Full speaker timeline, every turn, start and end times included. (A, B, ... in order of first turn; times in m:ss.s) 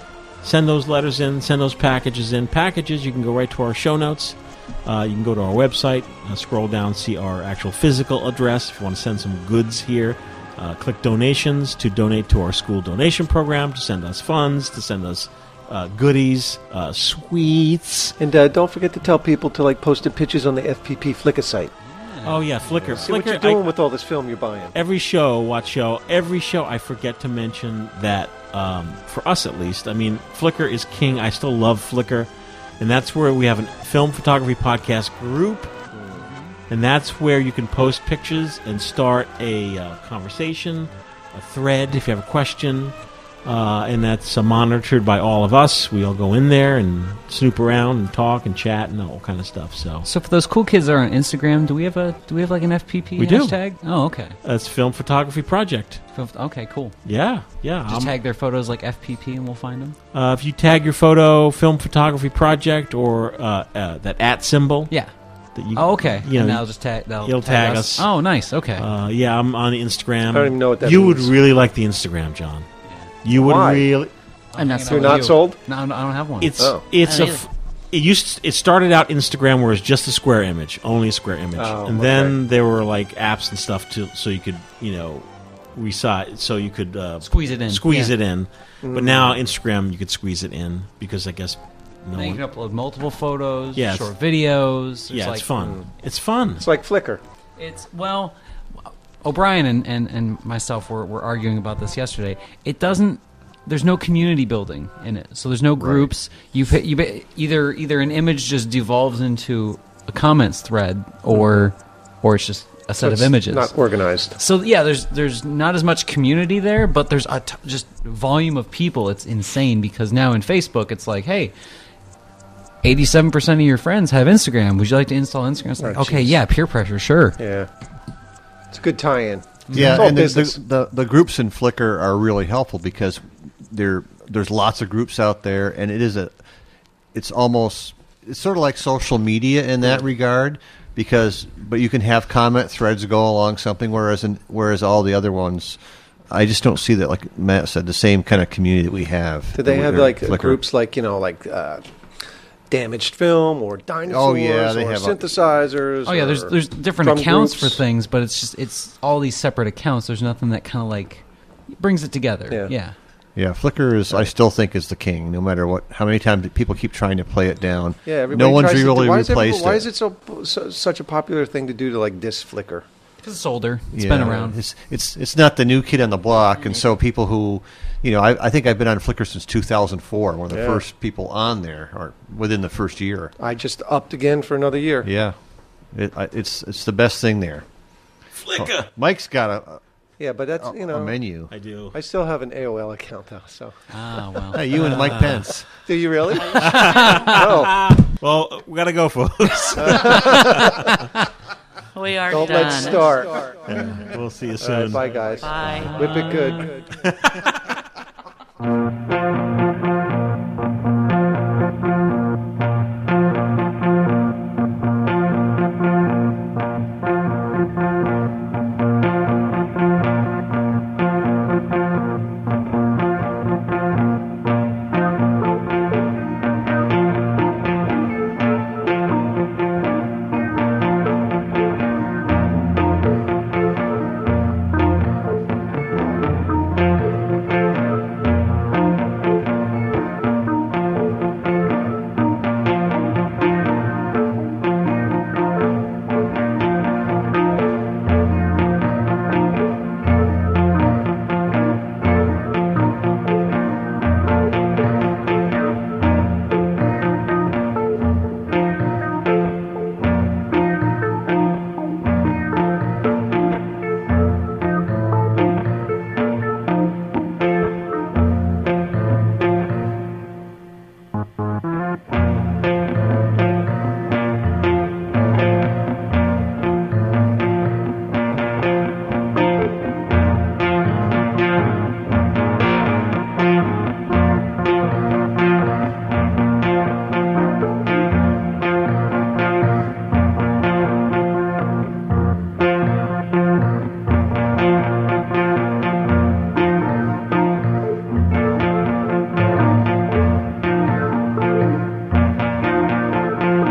0:00.4-0:18.1 A
0:18.2-0:21.7 B
0:21.8-0:23.0 C
0:22.2-0:23.7 A
0:22.9-0:24.8 B
0:24.7-0:35.7 A
0:36.7-0:50.1 A
0:50.0-0:54.4 C
0:53.2-0:53.6 A
0:54.4-0:56.0 A
0:56.1-0:57.0 C
0:57.0-0:58.1 A
0:57.9-1:00.0 C
1:00.1-1:04.9 A
1:05.5-1:06.7 A
1:05.7-1:08.9 C
1:07.2-1:08.1 A
1:08.8-1:12.6 A
1:10.3-1:11.4 B
1:12.9-1:13.1 C
1:13.2-1:14.1 A
1:13.3-1:13.9 B
1:14.5-1:16.5 C
1:14.6-1:15.3 D
1:14.9-1:15.6 B
1:16.4-1:32.4 A
1:16.6-1:16.8 B
1:17.0-1:17.4 D
1:21.6-1:22.4 B
1:27.2-1:28.1 C
1:28.8-1:29.4 B
1:32.1-1:35.5 C
1:33.7-1:34.1 A
1:35.1-1:36.6 A
1:35.6-1:35.9 B
1:36.6-1:37.2 B
1:37.6-1:53.7 C
1:45.8-1:46.1 E
1:51.3-1:51.7 B
1:53.0-1:54.4 B
1:54.4-2:01.5 C
2:02.8-2:07.4 C
2:05.8-2:06.4 B
2:07.4-2:07.7 B
2:08.7-2:10.6 B
2:09.7-2:10.0 C
2:09.7-2:16.4 E
2:17.1-2:25.8 E
2:26.3-2:30.6 E
2:29.5-2:31.8 B
2:32.7-2:37.8 B
2:34.0-2:35.2 E
2:36.0-2:42.9 C
2:43.4-2:49.9 E
2:48.0-2:52.8 B
2:53.2-2:54.6 C
2:53.9-3:03.3 E
2:56.4-2:56.8 D
3:00.5-3:00.8 B
3:03.4-3:05.1 B
3:05.0-3:05.4 E
3:05.9-3:07.6 E
3:08.4-3:08.9 A
3:08.5-3:09.8 E
3:10.2-3:11.2 B
3:10.6-3:11.5 E
3:11.5-3:12.0 A
3:11.9-3:13.7 B
3:13.9-3:15.4 C
3:14.5-3:15.7 E
3:15.8-3:18.0 B
3:16.5-3:20.9 A
3:16.8-3:17.3 C
3:19.8-3:20.9 B
3:21.9-3:23.4 D
3:22.3-3:23.7 B
3:23.7-3:27.6 A
3:24.6-3:26.8 B
3:25.3-3:26.4 D